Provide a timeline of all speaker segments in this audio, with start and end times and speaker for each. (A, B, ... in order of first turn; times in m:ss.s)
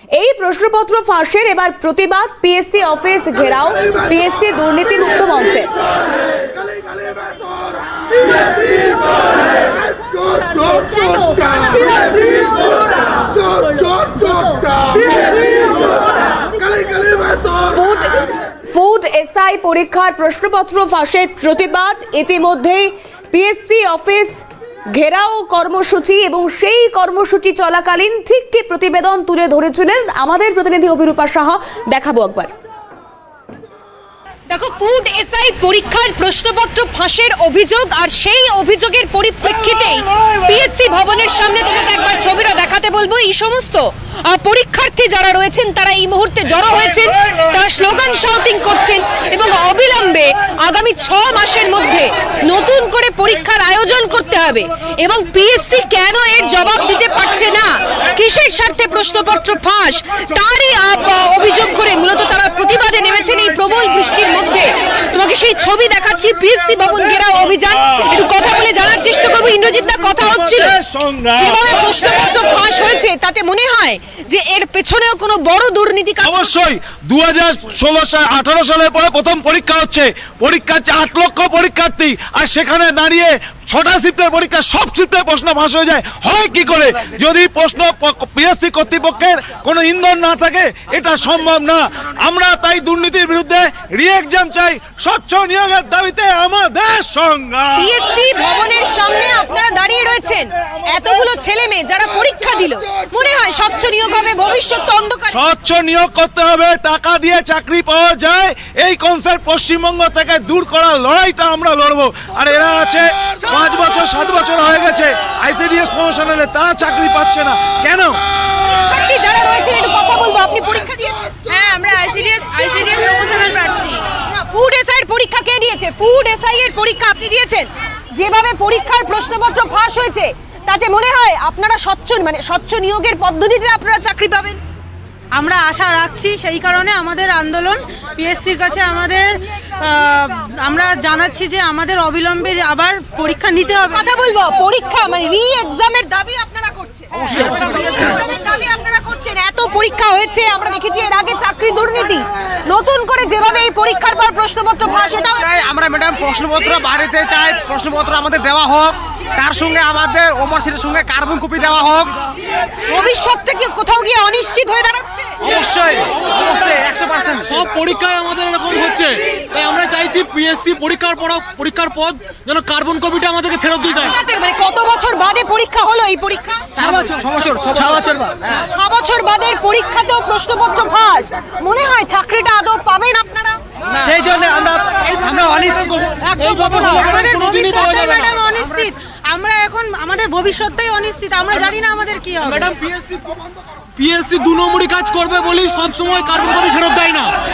0:00.2-0:05.7 A
0:17.6-0:24.4 A
0:24.9-0:32.5 A
0:34.5-1:10.8 B
1:10.1-1:11.6 C
1:11.3-1:16.5 B
1:16.2-1:38.0 C
1:37.8-1:45.4 B
1:45.3-1:58.2 C
1:58.7-2:14.6 B
2:15.3-2:24.1 D
2:23.9-2:35.5 B
2:27.2-2:28.1 E
2:34.9-2:42.1 E
2:42.9-2:45.3 B
2:45.4-2:47.6 E
2:47.4-2:54.1 F
2:53.9-2:56.6 B
2:56.8-2:58.7 E
2:58.7-3:03.6 B
3:03.9-3:07.2 E
3:06.3-3:08.4 F
3:06.5-3:12.7 D
3:12.4-3:13.2 F
3:14.0-3:17.3 F